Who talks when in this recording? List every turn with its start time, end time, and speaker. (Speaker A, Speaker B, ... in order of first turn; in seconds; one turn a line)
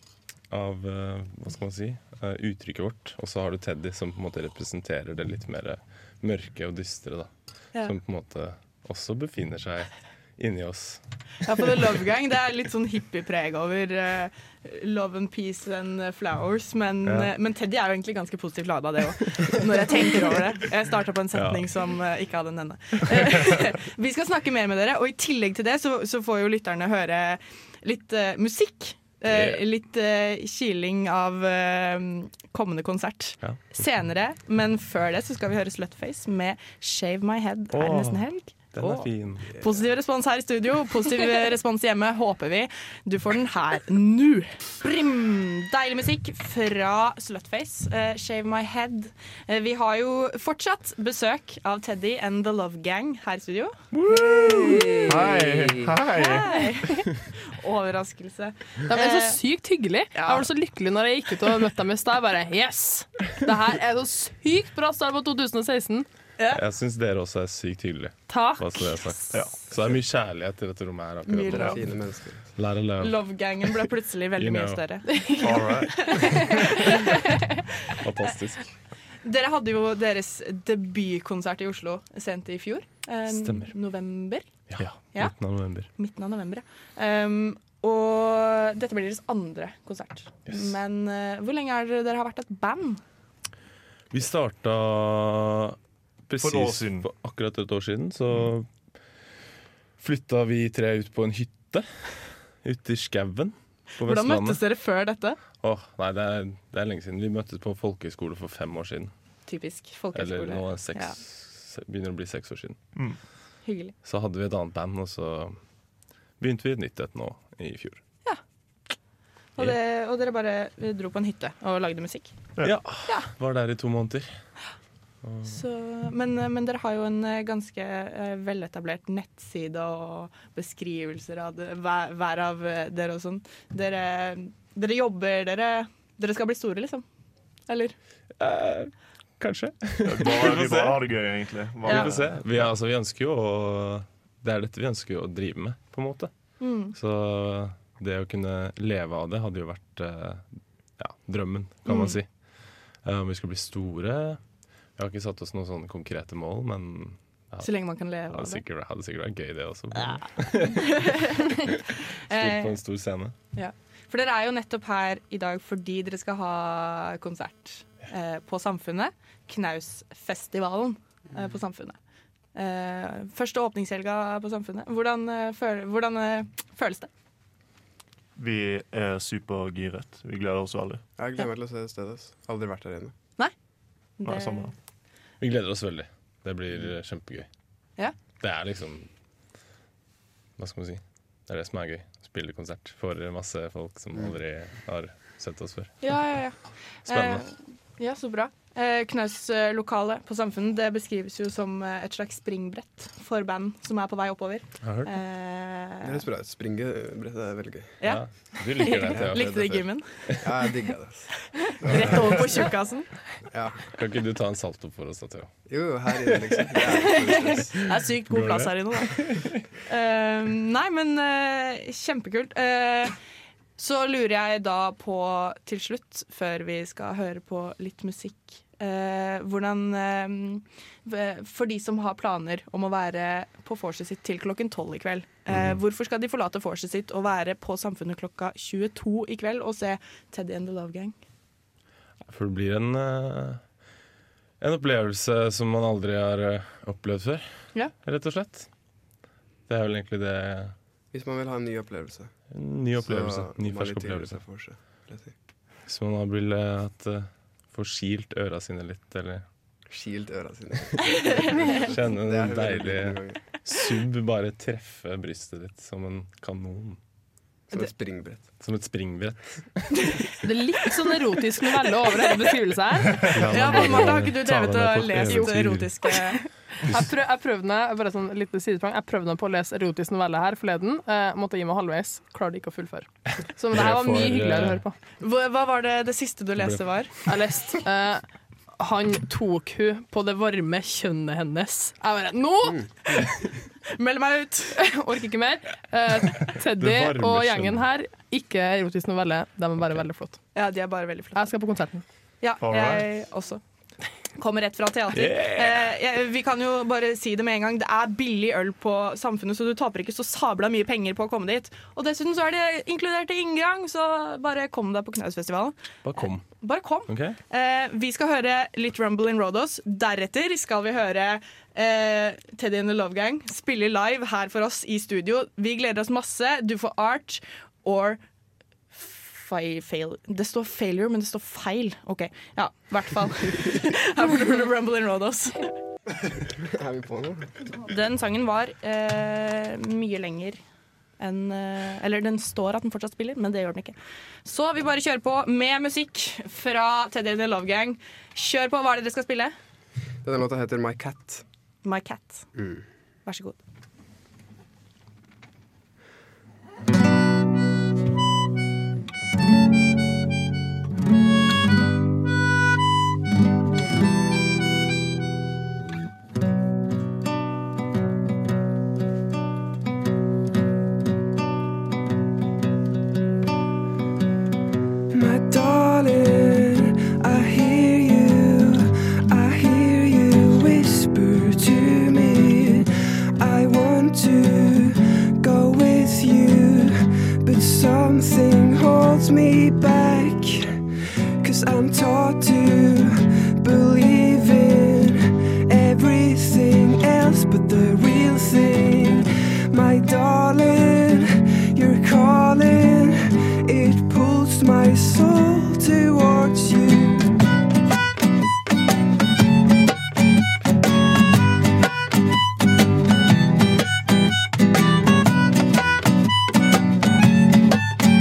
Speaker A: 0.5-7.3
Speaker A: 7.8-11.0
Speaker B: 11.4-53.8
Speaker A: 17.1-17.3
Speaker A: 21.3-21.6
Speaker A: 29.3-29.6
Speaker A: 33.4-33.8
Speaker A: 37.7-39.5
Speaker A: 54.0-54.9
Speaker C: 54.1-56.5
Speaker B: 54.3-55.2
Speaker B: 56.1-59.4
Speaker D: 58.9-66.1
Speaker B: 60.1-60.5
Speaker A: 66.5-71.9
Speaker D: 68.3-68.9
Speaker C: 69.3-69.7
Speaker B: 71.2-71.8
Speaker E: 71.5-72.5
Speaker A: 72.6-73.7
Speaker B: 73.0-77.4
Speaker A: 74.4-74.8
Speaker D: 75.2-75.6
Speaker C: 75.4-76.6
Speaker A: 78.0-78.7
Speaker B: 79.2-84.5
Speaker A: 83.3-83.7
Speaker A: 84.7-85.9
Speaker B: 85.9-93.0
Speaker A: 94.1-95.8
Speaker A: 96.3-98.7
Speaker C: 96.4-97.1
Speaker A: 100.0-104.6
Speaker B: 104.0-105.4
Speaker A: 105.6-109.1
Speaker B: 109.5-111.1
Speaker A: 110.1-112.8
Speaker B: 113.6-113.9
Speaker A: 114.0-115.6
Speaker A: 116.4-118.0
Speaker B: 119.6-122.3
Speaker A: 122.6-124.3
Speaker A: 125.2-125.6
Speaker B: 125.4-137.1
Speaker B: 137.7-137.9
Speaker A: 138.4-141.1
Speaker C: 140.1-142.7
Speaker A: 141.8-146.3
Speaker B: 141.8-142.1
Speaker B: 146.6-146.9
Speaker A: 146.9-150.4
Speaker A: 151.0-152.3
Speaker B: 151.9-152.2
Speaker A: 153.0-154.4
Speaker A: 155.0-157.7
Speaker B: 157.6-158.6
Speaker A: 158.2-163.3
Speaker B: 160.0-161.7
Speaker B: 162.3-162.8
Speaker B: 163.5-172.0
Speaker B: 172.6-177.1
Speaker C: 178.4-181.0
Speaker E: 181.2-183.1
Speaker B: 184.2-184.7
Speaker C: 184.2-184.7
Speaker A: 185.4-187.5
Speaker A: 188.4-189.1
Speaker A: 190.6-196.0
Speaker B: 196.0-206.2
Speaker A: 197.1-197.4
Speaker A: 204.8-205.1
Speaker E: 206.0-208.0
Speaker A: 208.0-209.7
Speaker B: 208.8-210.1
Speaker E: 209.1-209.8
Speaker E: 210.4-212.7
Speaker B: 211.5-213.1
Speaker E: 213.5-213.9
Speaker A: 213.9-215.5
Speaker E: 215.7-217.8
Speaker A: 216.2-217.6
Speaker B: 216.8-219.2
Speaker A: 218.3-219.6
Speaker B: 219.9-223.1
Speaker B: 223.8-241.1
Speaker A: 242.3-243.6
Speaker A: 244.6-247.5
Speaker A: 248.0-248.7
Speaker A: 249.7-250.7
Speaker E: 251.1-252.3
Speaker A: 252.5-254.4
Speaker E: 253.0-255.3
Speaker A: 255.9-259.4
Speaker E: 259.9-263.4
Speaker A: 261.7-267.0
Speaker E: 267.7-268.4
Speaker A: 268.6-270.1
Speaker D: 270.4-273.3
Speaker C: 273.1-275.8
Speaker A: 273.2-275.9
Speaker B: 273.5-276.4
Speaker D: 276.9-285.0
Speaker A: 283.7-284.8
Speaker B: 285.2-287.1
Speaker D: 287.2-288.2
Speaker D: 288.8-292.8
Speaker B: 293.9-294.8
Speaker D: 294.8-300.4
Speaker A: 296.8-297.8
Speaker B: 300.6-301.4
Speaker D: 301.3-302.0
Speaker B: 302.4-303.6
Speaker C: 302.6-303.1
Speaker B: 304.4-315.8
Speaker A: 305.1-305.9
Speaker A: 316.0-316.4
Speaker B: 316.6-328.2
Speaker A: 317.1-317.4
Speaker B: 328.9-335.7
Speaker E: 336.4-337.5
Speaker B: 337.8-340.6
Speaker B: 341.2-349.6
Speaker E: 350.2-351.4
Speaker B: 351.8-352.4
Speaker E: 352.6-352.8
Speaker B: 353.2-353.6
Speaker F: 375.1-390.8
Speaker F: 391.4-407.3